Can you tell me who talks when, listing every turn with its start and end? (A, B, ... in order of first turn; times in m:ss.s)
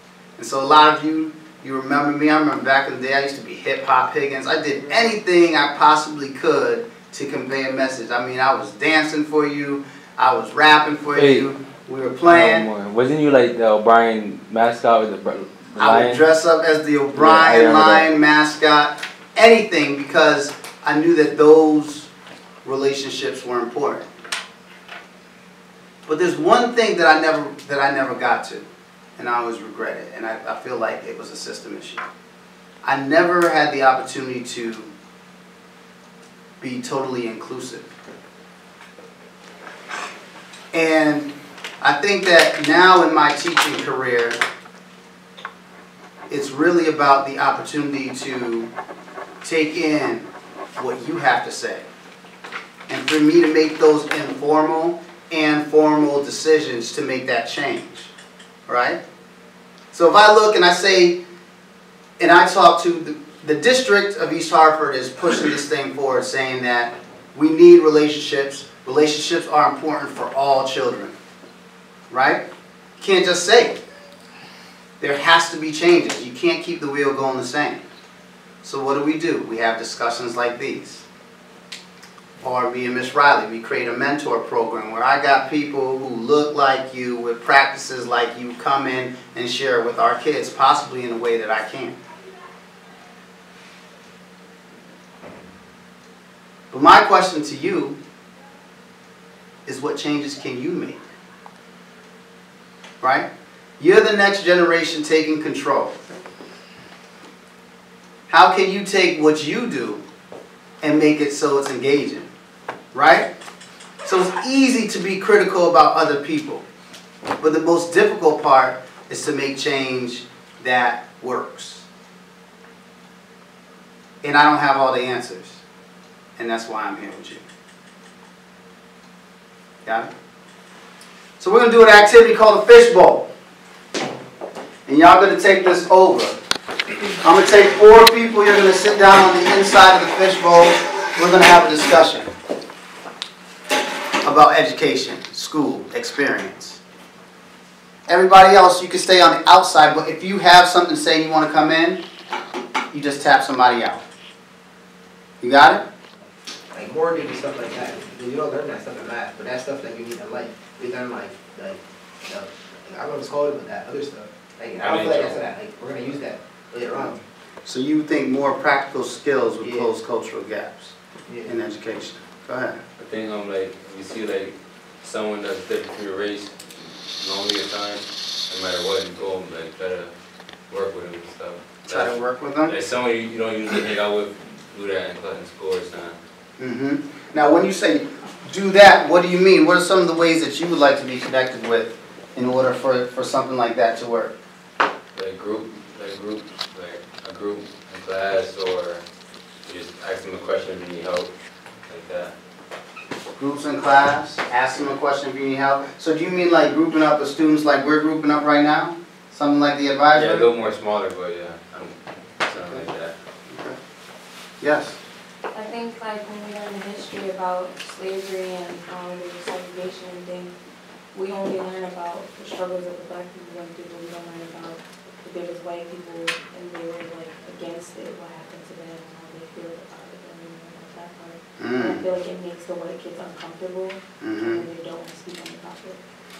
0:00.4-0:12.7 A
0:11.2-0:11.5 B
0:12.3-0:16.2 B
0:15.8-0:22.1 A
0:17.2-0:18.1 B
0:22.6-0:24.1 A
0:26.1-0:28.6 A
0:29.2-0:32.0 A
0:32.8-0:34.9 A
0:36.6-0:37.9 A
0:40.7-0:44.4 A
0:46.3-0:48.7 A
0:49.4-0:51.9 A
0:52.9-0:58.1 A
0:58.7-0:59.0 A
0:59.9-1:01.2 A
1:02.2-1:11.2 A
1:12.1-1:12.4 A
1:13.0-1:13.8 A
1:15.0-1:17.8 A
1:18.6-1:21.0 A
1:22.4-1:32.0 A
1:36.7-1:38.0 A
1:39.7-1:41.0 A
1:43.0-1:46.0 A
1:48.3-1:50.0 A
1:50.8-1:52.3 A
1:52.9-1:53.3 A
1:54.0-1:56.6 A
1:57.4-2:01.9 A
2:04.2-2:05.6 A
2:06.4-2:07.4 A
2:09.8-2:10.1 A
2:11.4-2:13.3 A
2:14.9-2:16.4 A
2:17.2-2:22.3 A
2:24.2-2:26.8 A
2:28.1-2:32.0 A
2:32.9-2:34.0 A
2:35.4-2:35.9 A
2:36.7-2:47.2 C
2:44.8-2:45.4 B
2:47.6-2:51.0 A
2:49.6-2:49.9 C
2:51.3-2:51.6 C
2:51.5-2:52.8 A
2:53.0-2:56.5 B
2:57.2-3:00.1 B
3:00.7-3:02.1 B
3:01.9-3:02.8 A
3:02.7-3:06.2 B
3:06.6-3:14.4 A
3:15.2-3:19.0 B
3:19.7-3:21.3 B
3:21.9-3:22.3 B
3:23.4-3:30.5 A
3:30.1-3:33.1 B
3:33.5-3:33.8 A
3:34.6-3:35.0 A
3:35.5-3:40.5 D
3:41.1-3:56.0 D
3:51.6-3:52.1 A
3:54.2-3:54.6 A